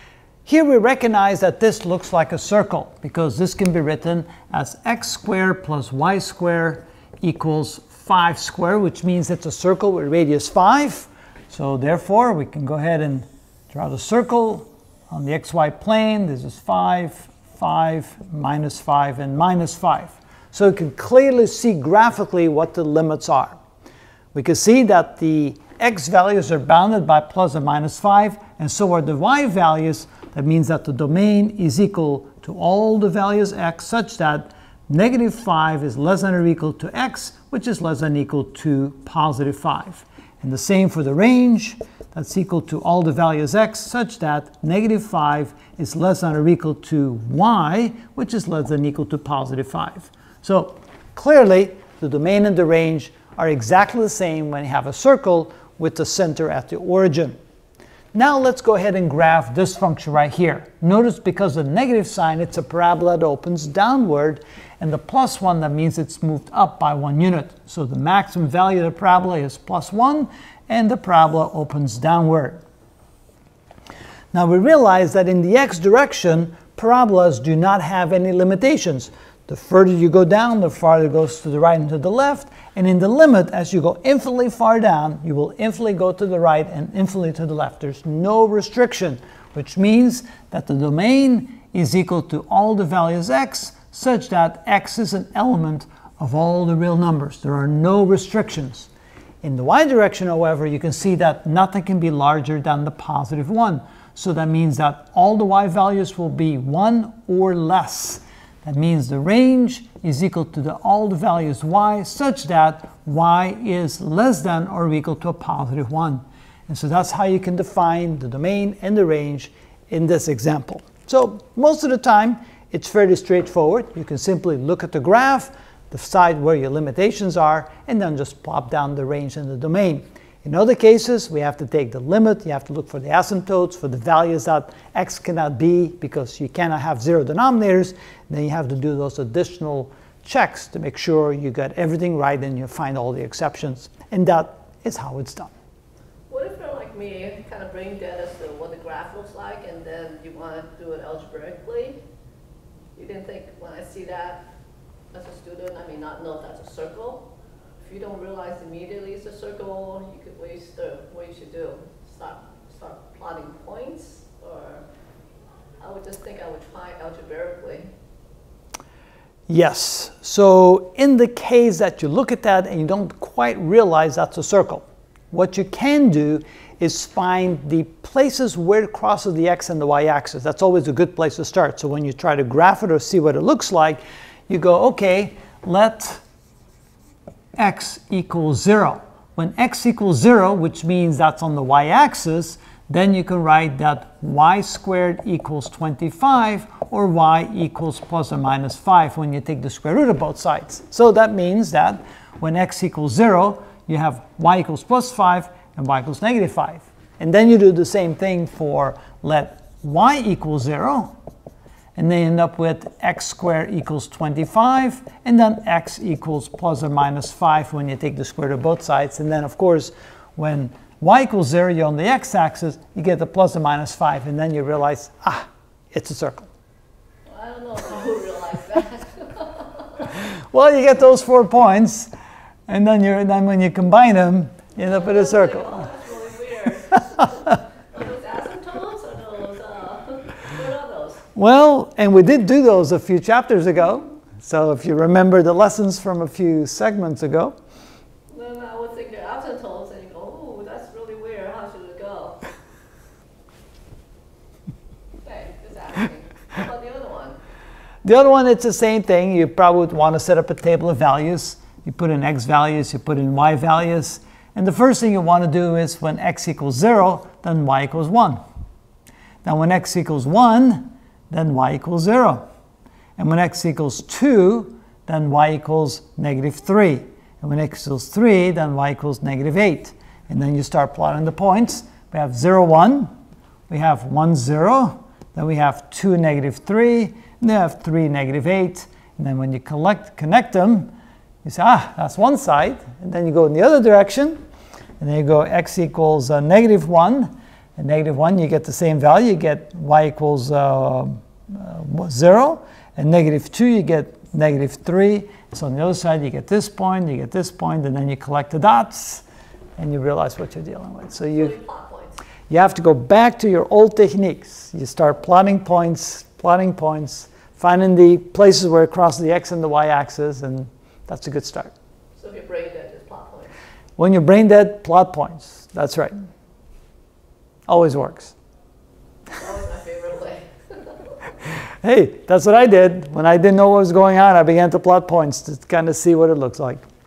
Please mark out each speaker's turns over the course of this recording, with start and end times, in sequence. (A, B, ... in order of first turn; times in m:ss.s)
0:00.4-0:23.6 A
0:24.3-0:57.4 A
0:58.1-1:12.6 A
1:14.3-1:38.9 A
1:39.4-2:25.5 A
2:26.3-2:32.0 B
2:32.9-2:34.4 B
2:35.1-2:37.3 B
2:37.8-2:44.8 B
2:45.8-2:47.9 B
2:49.5-3:06.2 A
3:07.6-3:31.1 A
3:31.9-3:46.5 A
3:47.3-3:50.1 B
3:50.2-3:52.1 A
3:52.7-3:55.9 A
3:54.8-4:01.2 B
4:01.3-4:07.6 A
4:08.3-4:12.4 B
4:15.2-4:17.4 B
4:18.0-4:28.4 A
4:29.4-4:32.4 A
4:33.2-4:43.1 A
4:43.7-4:50.9 A
4:51.4-4:54.4 A
4:55.0-5:09.2 A
5:09.8-5:11.5 A
5:11.4-5:12.2 B
5:12.5-5:21.7 A
5:22.1-5:23.5 B
5:24.0-5:26.2 A
5:27.7-5:28.4 A
5:29.3-5:31.2 B
5:31.8-5:36.8 A